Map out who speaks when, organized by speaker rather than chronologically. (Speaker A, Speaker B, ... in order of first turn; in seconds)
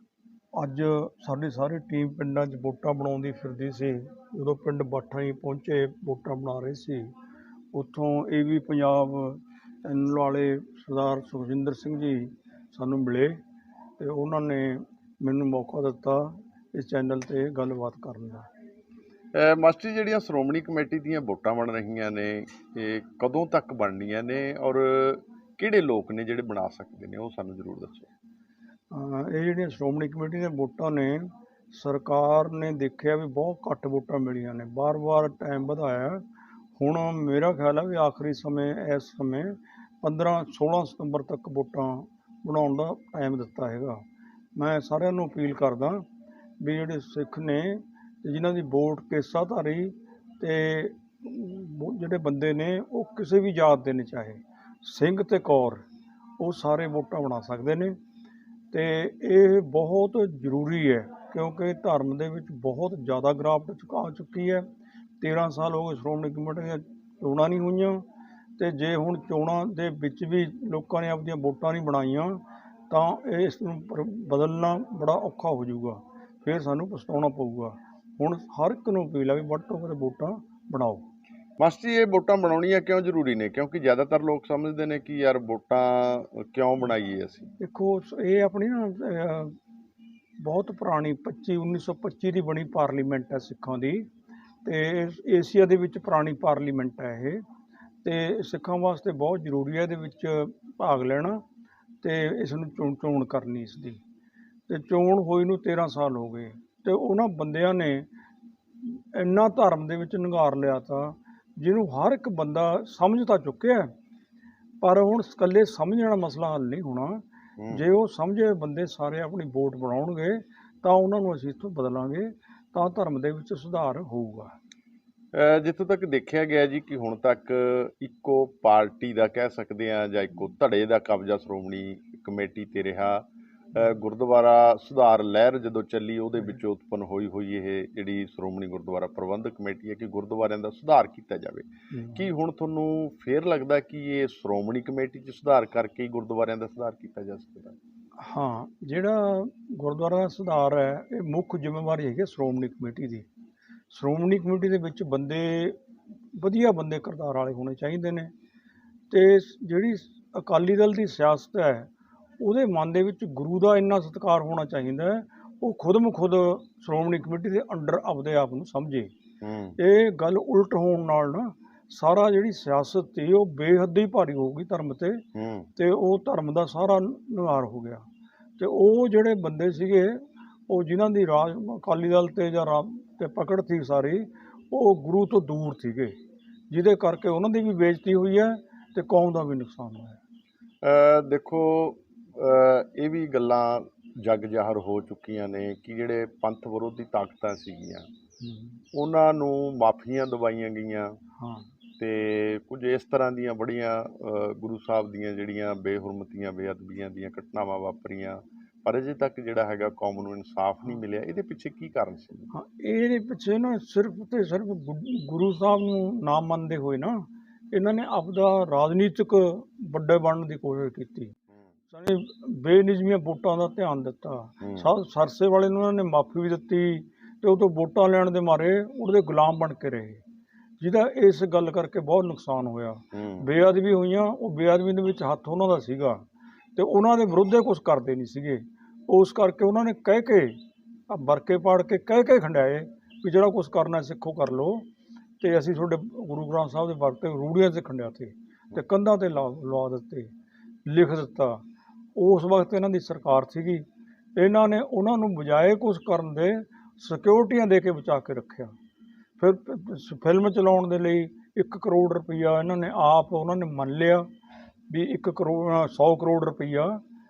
Speaker A: 0.5-7.1, 7.7-13.4, 14.0-18.5, 28.9-36.2, 36.8-44.0, 44.5-46.0, 46.6-55.8, 56.4-58.0, 58.7-64.7, 65.2-68.0, 68.6-81.0, 87.6-89.5, 90.4-94.1, 94.6-97.4, 98.0-101.4, 102.0-104.0, 104.7-108.0, 108.8-113.9, 114.8-124.5, 141.9-142.3, 148.2-153.2, 153.9-155.8, 156.3-158.3, 159.1-161.9, 162.4-169.1, 169.8-175.2, 175.8-178.0, 178.6-186.1, 186.7-190.2, 198.4-198.8, 201.4-201.7, 212.5-221.3, 221.9-230.2, 230.8-236.2, 236.8-240.6, 241.1-244.8, 245.4-250.3, 250.8-251.6, 252.2-258.7, 259.4-264.2, 264.9-267.0
Speaker B: 19.3-28.1, 81.6-87.5, 117.6-117.8, 125.3-147.8, 169.4-169.8, 175.3-175.7, 190.8-198.1, 198.9-201.2, 202.0-212.5, 224.6-224.9, 233.1-233.5